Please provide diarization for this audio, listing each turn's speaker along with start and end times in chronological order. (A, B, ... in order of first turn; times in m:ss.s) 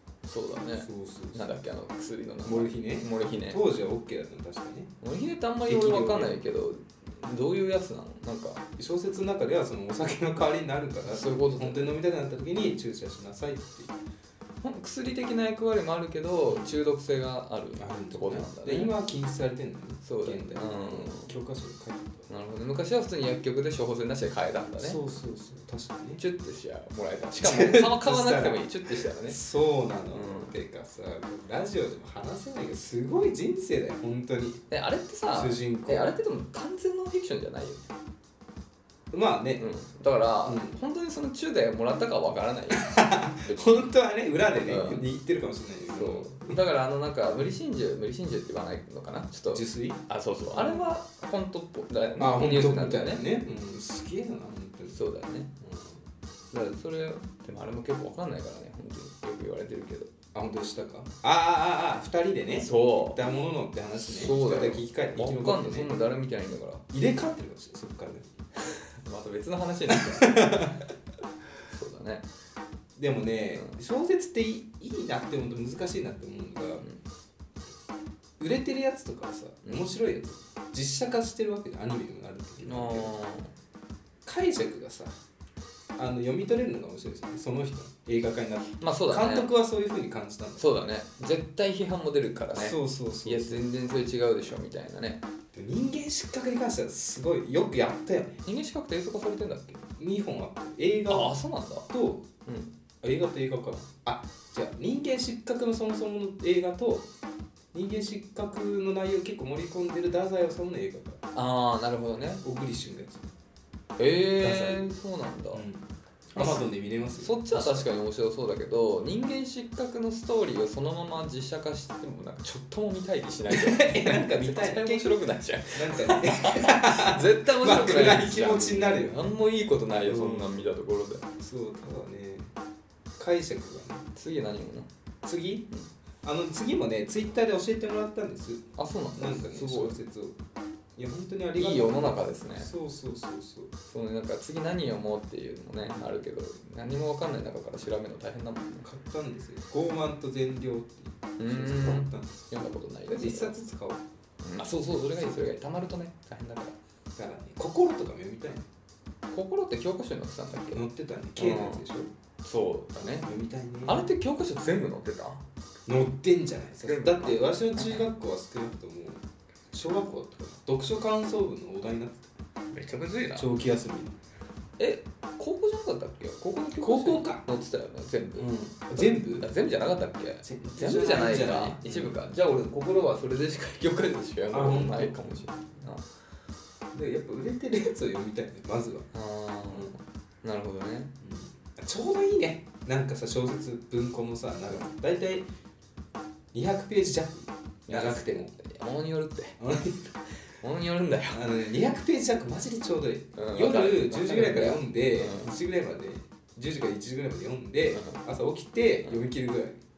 0:00.2-0:03.6 A
0:00.7-0:01.5 B
0:02.4-0:04.9 B
0:05.0-0:08.6 A
0:05.6-0:06.4 B
0:08.8-0:14.0 B
0:11.1-0:11.9 A
0:14.6-0:18.9 A
0:16.4-0:16.7 B
0:17.8-0:22.3 B
0:20.0-0:21.3 A
0:22.3-0:25.0 A
0:24.8-0:26.2 B
0:26.2-0:29.4 A
0:27.4-0:34.6 B
0:30.1-0:30.5 A
0:34.7-0:37.9 A
0:35.3-0:36.1 B
0:39.1-0:39.7 B
0:39.6-0:42.9 A
0:40.4-0:40.8 B
0:42.7-0:46.6 B
0:44.6-0:45.0 A
0:45.9-0:53.2 A
0:49.5-0:50.9 B
0:52.2-0:55.0 B
0:54.9-0:55.5 A
0:55.6-0:55.9 B
0:56.5-1:00.1 A
1:00.3-1:05.9 B
1:02.6-1:03.2 A
1:04.0-1:06.8 A
1:06.9-1:08.3 B
1:09.0-1:10.7 A
1:09.9-1:10.8 B
1:11.7-1:12.3 A
1:13.0-1:16.9 B
1:18.4-1:23.2 B
1:22.6-1:23.5 A
1:24.2-1:25.2 B
1:26.0-1:30.7 B
1:28.8-1:29.5 A
1:30.6-1:35.2 A
1:32.5-1:33.6 B
1:35.5-1:38.4 B
1:38.4-1:39.8 A
1:40.0-1:42.3 B
1:41.1-1:41.9 A
1:42.4-1:42.7 A
1:43.0-1:47.1 B
1:47.7-1:51.2 B
1:51.3-1:52.4 A
1:52.4-1:53.3 B
1:54.0-1:55.6 A
1:54.4-1:54.9 B
1:55.5-1:57.8 B
1:56.4-2:11.3 A
2:03.5-2:09.3 B
2:10.0-2:10.6 B
2:11.4-2:12.5 B
2:13.2-2:14.1 B
2:14.2-2:14.9 A
2:15.2-2:15.7 B
2:16.2-2:20.4 B
2:18.8-2:20.0 A
2:21.0-2:23.7 B
2:21.6-2:22.7 A
2:23.9-2:28.8 A
2:28.8-2:32.5 B
2:31.4-2:33.5 A
2:33.1-2:34.0 B
2:34.4-2:36.8 A
2:37.2-2:38.7 B
2:39.3-2:40.8 A
2:40.7-2:42.1 B
2:41.4-2:41.8 A
2:42.4-2:43.3 A
2:43.0-2:44.0 B
2:43.8-2:45.4 A
2:45.9-2:52.3 B
2:46.8-2:48.0 A
2:52.7-2:53.5 A
2:53.3-2:54.2 B
2:54.8-3:06.0 A
2:56.8-2:57.4 B
2:58.4-2:59.5 B
3:00.4-3:02.2 B
3:04.5-3:05.4 B
3:06.9-3:09.1 B
3:09.1-3:11.1 A
3:09.7-3:09.9 B
3:11.2-3:15.4 B
3:16.5-3:18.6 B
3:17.9-3:19.6 A
3:19.6-3:20.1 B
3:20.6-3:21.4 A
3:21.3-3:29.8 B
3:23.4-3:25.5 A
3:27.9-3:28.2 A